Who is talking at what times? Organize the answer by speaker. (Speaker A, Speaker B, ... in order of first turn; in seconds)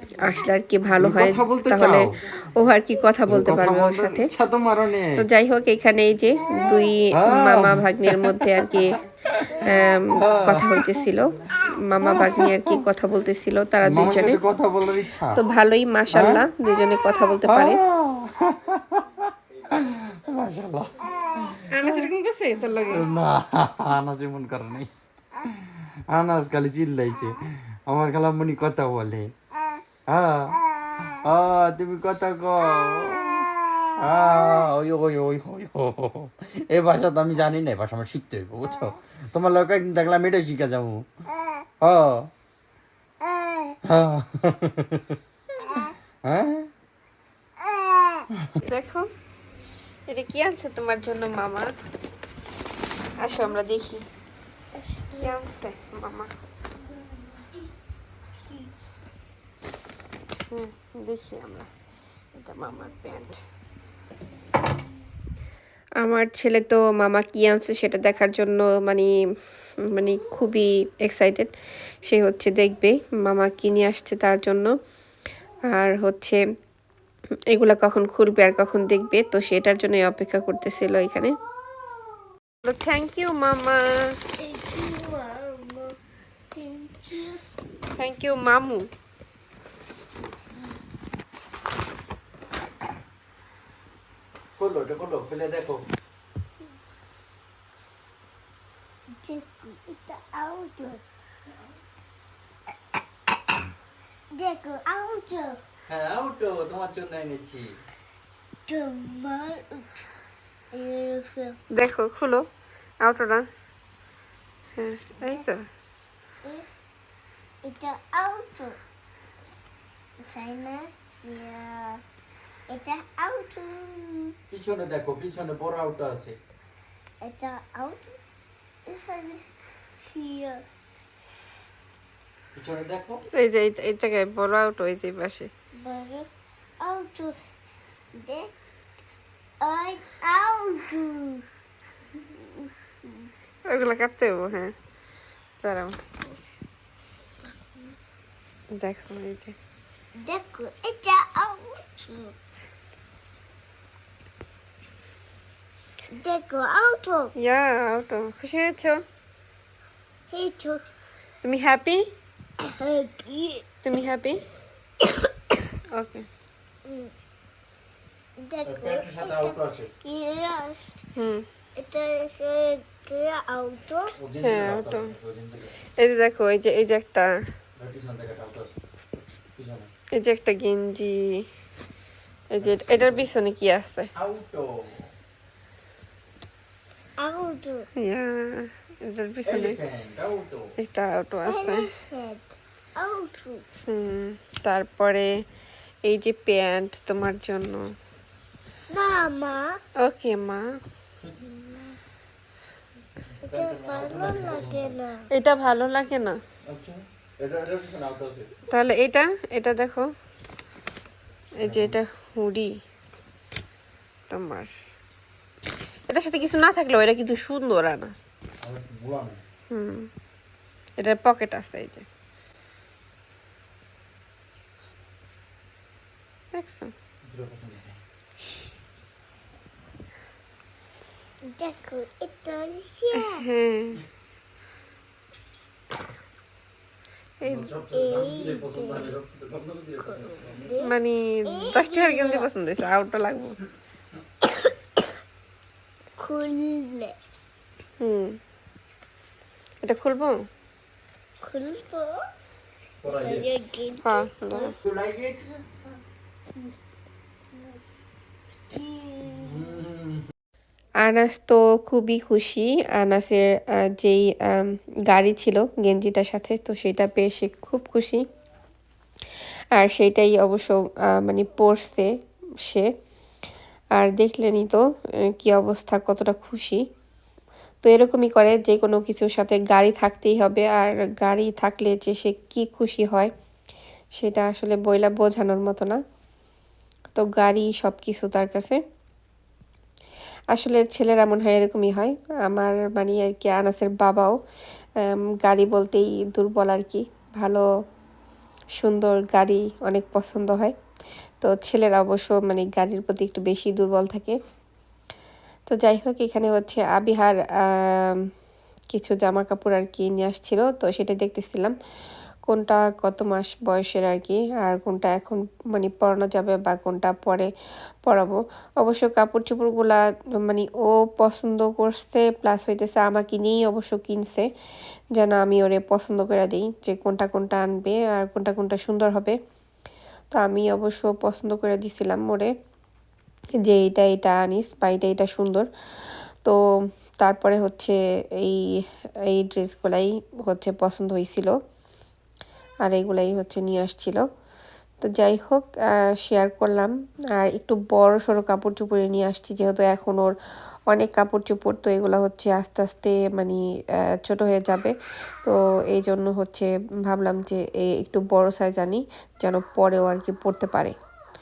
Speaker A: 0.2-4.3, 5.2-9.0, 9.6-14.4, 15.3-17.8, 21.7-23.1, 48.6-49.1, 50.1-51.7, 53.2-54.0, 55.2-56.3, 60.5-61.7, 62.4-63.4, 66.0-69.1, 69.8-71.5, 72.0-74.7, 75.7-76.4, 77.5-81.3, 82.6-84.2, 87.9-88.9, 111.7-112.5, 113.0-113.5, 114.8-115.7, 133.4-135.5, 143.7-144.7, 145.6-146.0, 148.8-149.6, 157.4-159.0, 161.4-162.1, 163.8-164.4, 165.9-166.3, 171.2-171.4, 174.4-175.1, 176.0-177.3, 180.2-181.5, 182.5-184.1, 188.0-189.8, 190.8-191.9, 193.9-195.3, 196.1-197.9, 200.0-200.7, 205.3-206.4, 208.7-210.1, 211.6-212.8, 214.3-214.7, 216.1-218.3, 219.7-220.1, 221.0-222.1, 226.5-226.9, 233.2-234.0, 237.4-237.7, 240.8-243.6, 248.0-248.4, 249.8-250.4, 254.0-254.7, 261.0-268.2, 269.8-272.1, 273.9-276.8, 277.8-283.3, 284.2-286.0, 287.1-288.8, 290.5-294.4, 295.0-297.6, 298.8-300.7, 301.4-304.4, 305.7-308.3, 308.9-311.8, 312.5-317.5, 318.0-324.5, 325.2-329.4, 330.3-332.5, 333.6-336.6, 337.2-341.6, 342.8-344.2, 345.0-350.4, 350.9-360.9
Speaker B: 1.0-2.1, 3.3-5.1, 7.1-11.1, 12.1-12.6, 13.8-15.4, 16.1-16.5, 17.4-21.9, 22.9-24.9, 26.1-29.3, 30.1-33.5, 34.0-41.1, 41.8-42.3, 43.9-45.2, 46.2-46.7, 94.6-95.8, 105.9-107.8, 124.5-126.4, 132.6-133.2, 168.7-169.9, 174.2-175.8, 177.8-178.8, 179.6-179.9, 182.6-183.3, 184.2-185.1, 189.4-190.7, 203.5-204.9, 206.7-208.5, 211.6-212.0, 218.6-219.4, 227.3-228.0, 237.4-240.8, 253.0-253.5, 254.8-255.6, 259.3-260.2
Speaker C: 54.7-55.4, 84.3-86.0, 86.5-87.4, 99.2-101.0, 104.3-105.6, 108.7-110.0, 110.7-111.6, 117.6-118.8, 120.2-122.0, 122.7-124.3, 127.2-128.2, 128.9-129.4, 130.0-130.7, 135.8-136.3, 136.8-137.4, 138.1-138.5, 139.6-141.4, 142.3-143.3, 150.2-152.3, 156.1-157.3, 160.3-160.8, 162.6-163.7, 166.8-167.1, 168.4-170.8, 171.8-174.1, 187.2-187.9, 191.5-193.6, 198.9-199.8, 201.4-202.0, 203.4-205.2, 231.5-233.4, 237.9-239.2, 240.0-240.9, 241.5-242.5, 246.2-247.2, 251.4-252.2, 253.1-254.7, 258.7-259.7